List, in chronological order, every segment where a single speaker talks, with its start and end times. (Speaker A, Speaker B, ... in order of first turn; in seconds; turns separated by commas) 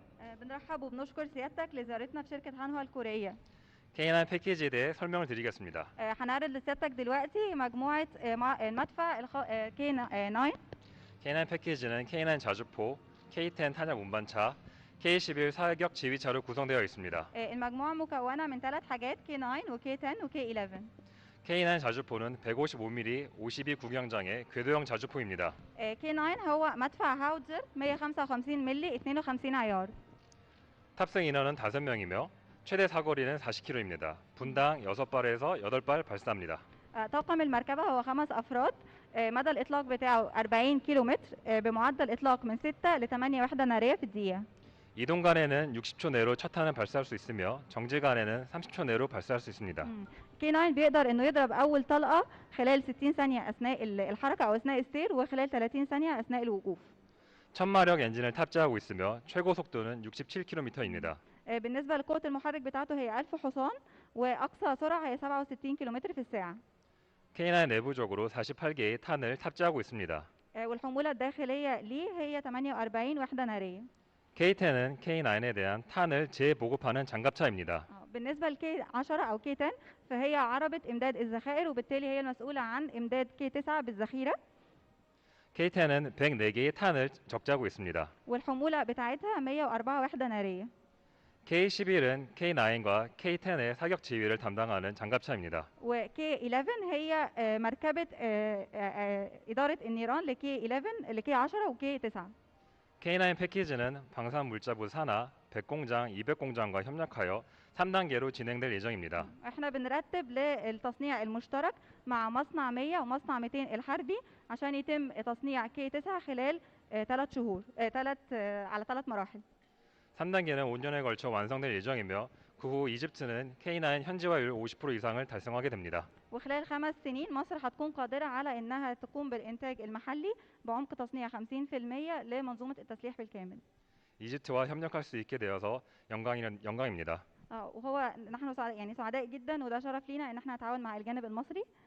Speaker A: 0.2-3.4, Speaker B: 3.9-5.9, Speaker A: 6.0-10.6, Speaker B: 11.2-17.3, Speaker A: 17.3-20.9, Speaker B: 21.4-25.6, Speaker A: 25.8-29.9, Speaker B: 30.9-36.6, Speaker A: 36.9-44.4, Speaker B: 45.0-49.9, Speaker A: 49.8-56.9, Speaker B: 57.5-61.2, Speaker A: 61.0-66.6, Speaker B: 67.3-70.3, Speaker A: 70.5-73.8, Speaker B: 74.3-77.9, Speaker A: 77.9-84.3, Speaker B: 85.5-88.1, Speaker A: 88.2-90.7, Speaker B: 91.5-95.7, Speaker A: 95.8-102.3, Speaker B: 103.0-109.3, Speaker A: 109.2-119.4, Speaker B: 120.2-126.1, Speaker A: 126.3-133.6, Speaker B: 134.2-137.2, Speaker A: 137.5-141.7